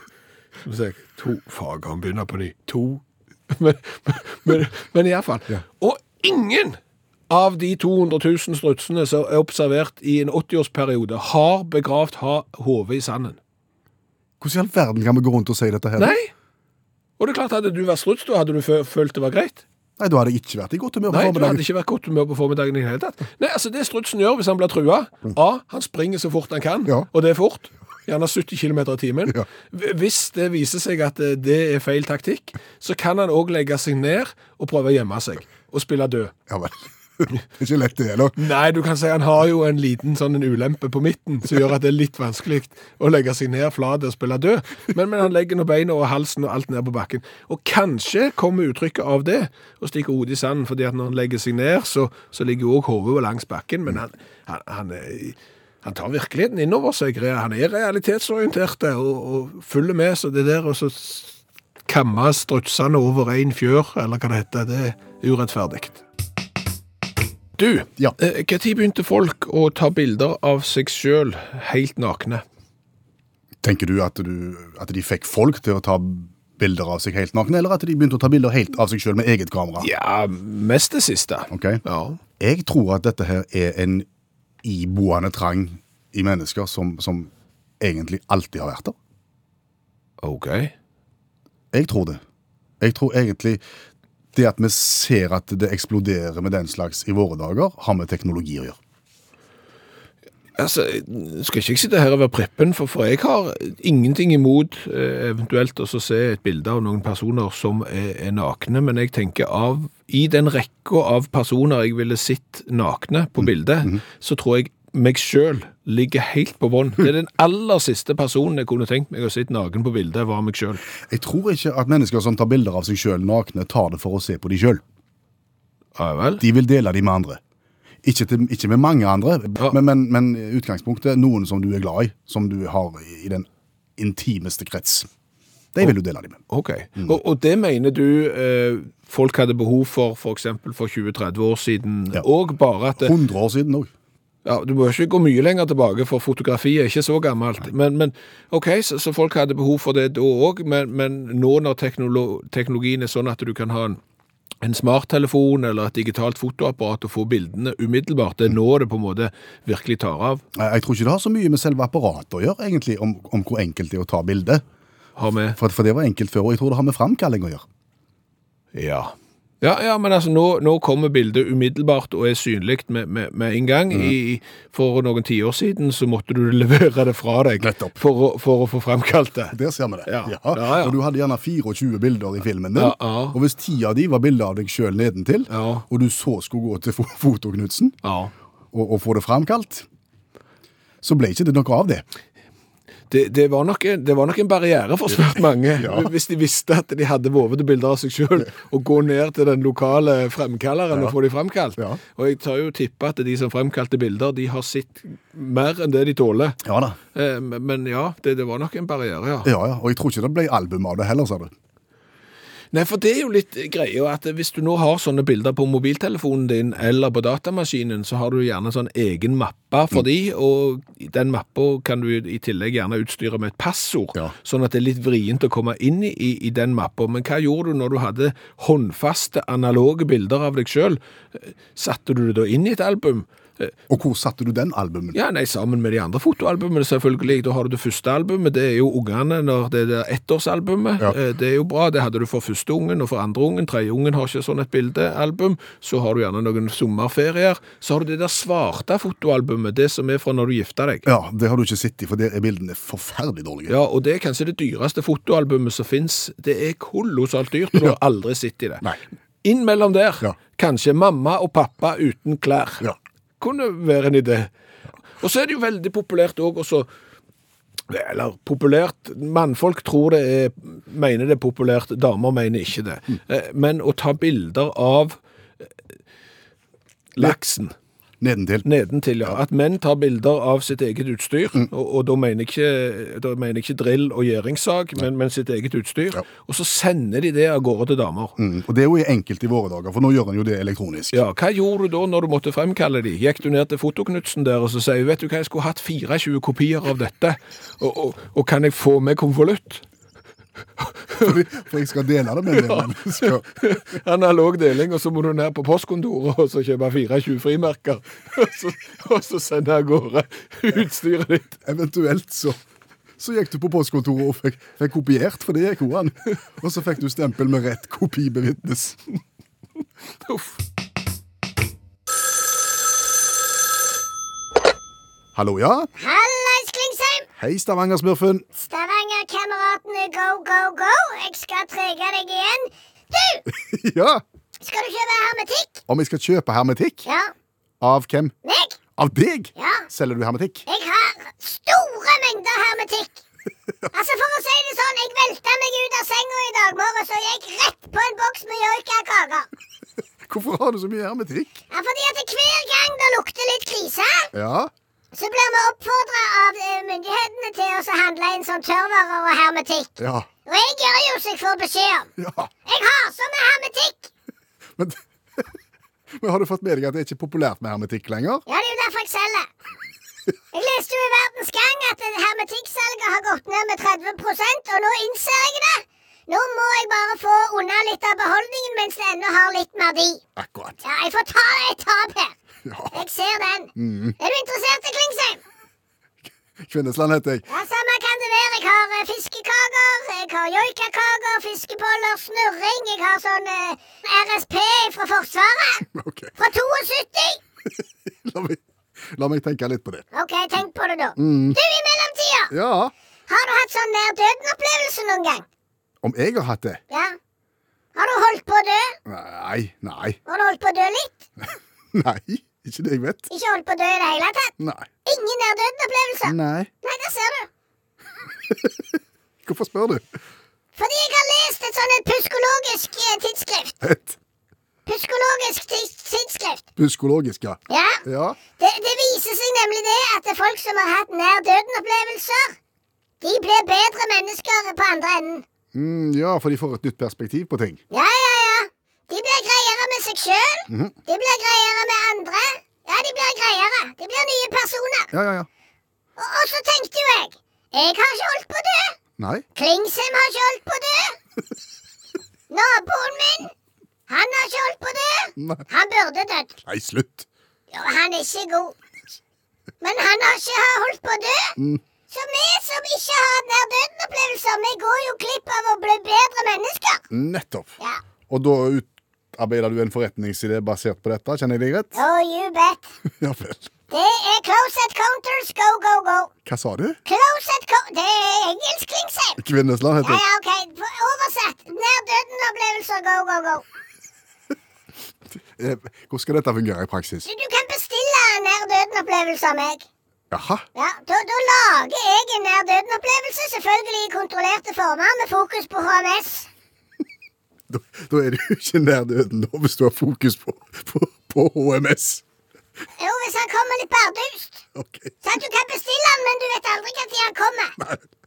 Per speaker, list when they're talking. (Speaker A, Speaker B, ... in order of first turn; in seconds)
Speaker A: 0.6-13.4, 16.0-16.3, 17.2-19.6, 21.1-36.3, 38.4-61.3, 61.9-66.0, 67.6-72.4, 79.8-82.2, 90.2-90.7, 100.6-120.8, 126.0-126.4, 136.5-143.2, 144.4-154.0, 154.6-160.4, 165.2-165.6, 168.7-179.6, 180.1-180.9, 182.8-183.4, 185.5-185.8, 188.0-188.3, 193.1-206.6, 207.1-209.5, 212.7-233.8, 235.1-251.1, 253.7-258.9, 259.4-262.8, 263.4-264.5, 265.2-266.9, 267.9-275.2, 277.1-277.8, 278.6-288.4, 291.1-299.8, 300.8-301.3, 302.5-311.6, 320.2-320.5
Speaker B: 14.4-16.2, 20.0-21.6, 36.5-38.4, 73.6-79.9, 81.5-81.8, 82.4-84.1, 84.6-89.0, 91.7-92.2, 92.8-93.6, 94.3-98.8, 121.0-124.8, 126.4-127.4, 128.0-135.1, 135.8-136.4, 143.0-143.9, 160.6-164.6, 165.6-167.7, 173.9-174.2, 177.6-178.0, 179.5-188.0, 188.7-189.9, 191.0-192.1, 195.8-196.1, 206.6-207.0, 209.4-211.5, 233.9-235.2, 251.1-253.8, 278.2-278.7, 288.4-291.2, 301.2-303.8, 311.6-312.6, 313.2-319.0, 325.4-325.9, 327.4-328.4, 333.5-334.2, 335.9-337.1, 337.8-338.3, 339.0-340.6, 350.3-351.6, 354.3-354.7, 360.0-360.3, 362.2-362.5, 364.8-365.5, 366.2-368.4, 380.4-380.8, 382.6-383.0, 383.8-384.2, 386.6-387.5, 395.9-396.3, 397.7-400.1, 401.2-401.6, 402.5-402.9, 406.0-406.8, 409.1-410.2, 411.9-413.3, 414.6-414.9, 416.2-416.7, 418.5-418.8, 419.4-420.1, 423.8-424.2, 426.8-428.4, 435.7-437.8, 440.7-440.9, 445.1-445.5, 449.2-449.4, 455.4-455.7, 456.7-457.3, 467.1-467.7, 468.3-472.0, 473.2-473.7, 476.5-477.0, 479.4-480.2, 485.6-487.3, 490.3-490.6, 497.7-502.2, 504.8-505.2, 507.8-508.0
Speaker C: 326.0-327.3, 328.6-333.4, 334.6-335.8, 337.1-337.3, 338.4-338.8, 339.6-339.9, 340.7-343.2, 343.9-349.5, 351.7-354.3, 355.1-362.1, 362.7-364.1, 368.5-369.5, 370.5-380.2, 380.8-382.4, 382.9-385.4, 387.5-395.9, 396.4-397.4, 400.1-402.5, 403.3-405.4, 406.9-407.1, 407.9-409.0, 410.3-411.2, 413.3-414.5, 415.1-417.5, 420.8-423.8, 424.9-426.6, 427.7-428.0, 428.6-432.6, 433.2-435.4, 437.9-445.1, 446.2-449.0, 449.6-451.2, 452.5-453.5, 454.1-456.6, 457.7-458.8, 459.8-461.6, 462.1-467.0, 471.9-472.9, 473.9-476.3, 477.1-479.4, 480.0-483.6, 487.2-489.9, 490.8-496.5, 503.0-504.6, 505.2-507.8